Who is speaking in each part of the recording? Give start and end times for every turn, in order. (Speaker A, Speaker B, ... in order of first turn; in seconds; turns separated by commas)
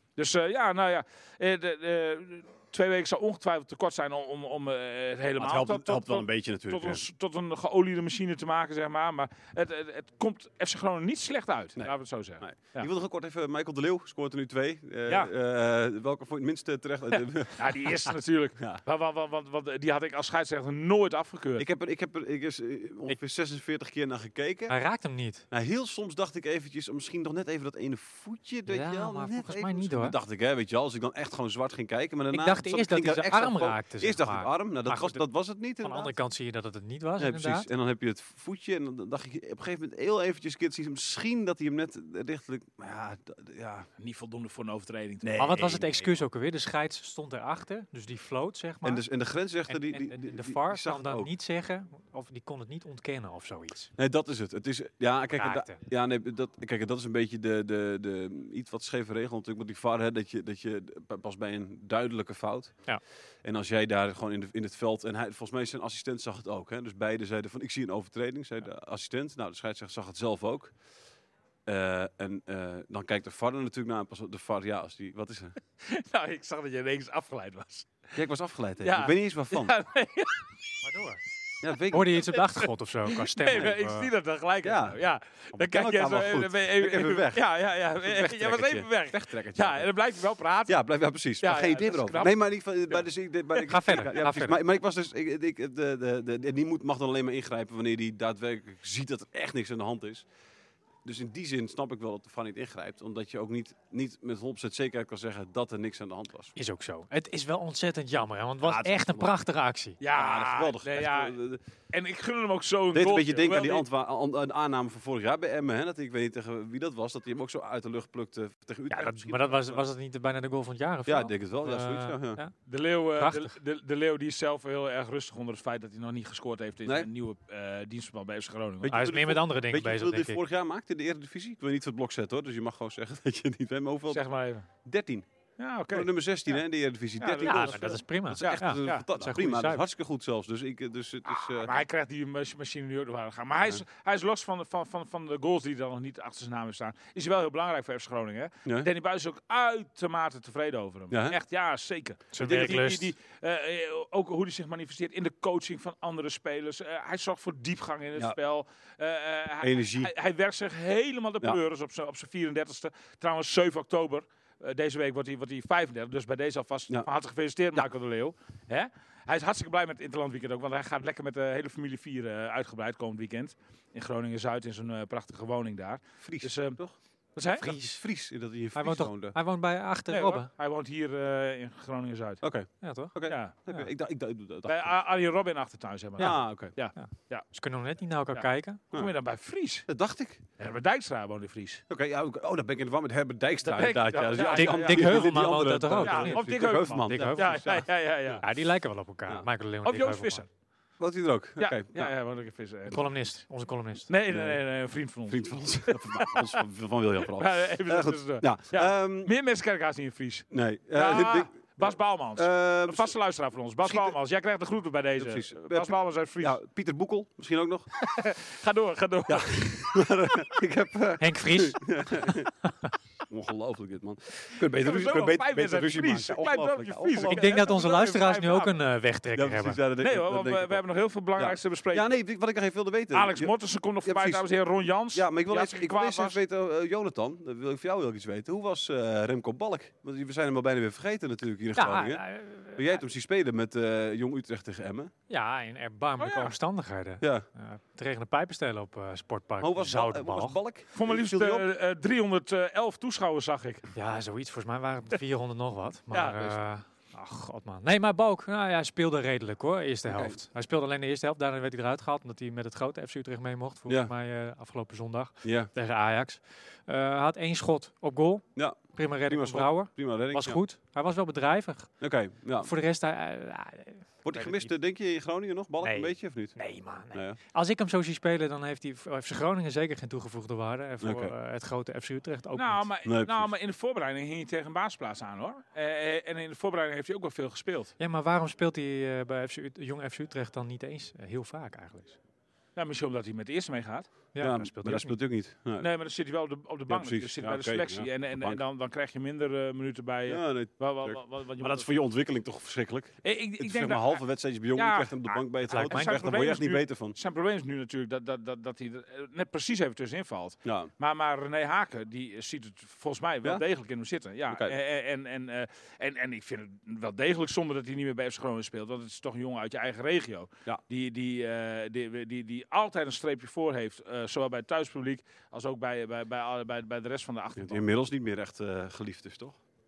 Speaker A: 0.2-12.9, Speaker B: 5.4-7.0, Speaker B: 11.8-17.9, Speaker A: 15.1-15.3, Speaker A: 17.5-21.7, Speaker B: 21.6-24.8, Speaker C: 24.7-25.4, Speaker B: 25.5-36.1, Speaker C: 28.7-30.1, Speaker C: 32.3-35.2, Speaker C: 35.8-37.7, Speaker B: 37.2-43.9, Speaker A: 44.0-45.5, Speaker B: 45.2-46.2, Speaker C: 45.4-49.0, Speaker B: 48.8-51.3, Speaker C: 49.7-53.9, Speaker B: 54.0-62.8, Speaker C: 55.4-55.8, Speaker B: 63.4-70.7, Speaker B: 71.7-75.5, Speaker A: 75.8-77.9, Speaker B: 78.1-79.7, Speaker A: 78.8-80.5, Speaker C: 80.8-81.2, Speaker B: 81.6-82.3, Speaker C: 81.9-84.1, Speaker A: 82.3-90.8, Speaker B: 84.6-85.0, Speaker B: 85.5-89.9, Speaker B: 90.7-100.2, Speaker A: 91.4-93.0, Speaker C: 93.6-94.5, Speaker B: 101.0-106.5, Speaker C: 106.5-110.0, Speaker B: 108.6-109.3, Speaker A: 110.0-111.3, Speaker B: 110.1-111.6, Speaker A: 111.9-113.9, Speaker B: 112.9-119.9, Speaker C: 118.9-122.6, Speaker B: 121.0-122.4, Speaker A: 122.7-129.1, Speaker C: 123.2-123.5, Speaker B: 128.8-134.2, Speaker C: 128.9-130.4, Speaker A: 134.1-134.7, Speaker B: 134.8-135.2, Speaker A: 135.6-136.1, Speaker B: 135.9-141.7, Speaker A: 137.2-139.0, Speaker C: 137.4-139.8, Speaker A: 141.3-176.8, Speaker B: 151.1-151.4, Speaker C: 152.3-153.1, Speaker B: 152.3-152.9, Speaker B: 159.6-160.1, Speaker B: 176.2-177.0, Speaker A: 177.3-177.7, Speaker B: 177.6-179.4, Speaker C: 177.6-178.0, Speaker C: 178.7-180.5, Speaker A: 180.1-182.4, Speaker B: 182.4-185.0, Speaker C: 182.8-183.1, Speaker A: 183.3-183.5, Speaker A: 184.7-187.5, Speaker B: 186.2-186.8, Speaker C: 186.2-188.8, Speaker A: 188.3-189.9, Speaker B: 189.8-190.4, Speaker A: 190.6-191.8, Speaker B: 191.9-198.4, Speaker A: 193.6-195.4, Speaker C: 194.3-200.4, Speaker A: 196.0-198.4, Speaker A: 199.8-200.5, Speaker B: 201.0-202.1, Speaker A: 201.6-203.0, Speaker C: 202.9-204.1, Speaker A: 204.1-206.6, Speaker B: 204.3-209.3, Speaker A: 207.2-216.6, Speaker B: 210.5-213.1, Speaker B: 213.8-214.2, Speaker B: 215.2-217.9, Speaker A: 218.0-220.0, Speaker B: 219.3-222.5, Speaker C: 221.2-222.3, Speaker B: 223.3-227.7, Speaker A: 224.6-228.8, Speaker C: 227.3-229.8, Speaker B: 229.3-230.8, Speaker A: 230.0-232.1, Speaker B: 231.3-234.5, Speaker A: 233.1-236.4, Speaker B: 235.1-245.1, Speaker C: 241.8-243.0, Speaker C: 245.3-250.6, Speaker A: 246.2-246.5, Speaker B: 247.2-247.4, Speaker B: 249.6-251.7, Speaker A: 250.9-253.8, Speaker C: 253.9-274.7, Speaker A: 256.1-256.6, Speaker B: 260.1-260.4, Speaker B: 263.9-264.1, Speaker B: 265.4-265.7, Speaker B: 268.6-270.6, Speaker B: 272.0-272.7, Speaker B: 274.2-276.6, Speaker C: 275.8-282.9, Speaker B: 277.1-277.4, Speaker B: 281.0-281.3, Speaker A: 282.5-287.9, Speaker B: 283.0-283.5, Speaker C: 288.0-292.2, Speaker A: 292.8-294.1, Speaker C: 294.3-295.2, Speaker B: 294.4-295.9, Speaker A: 295.8-301.9, Speaker B: 296.9-298.6, Speaker B: 300.3-307.2, Speaker A: 303.2-327.9, Speaker C: 305.7-306.5, Speaker B: 310.6-310.9, Speaker B: 314.5-314.8, Speaker B: 327.6-329.6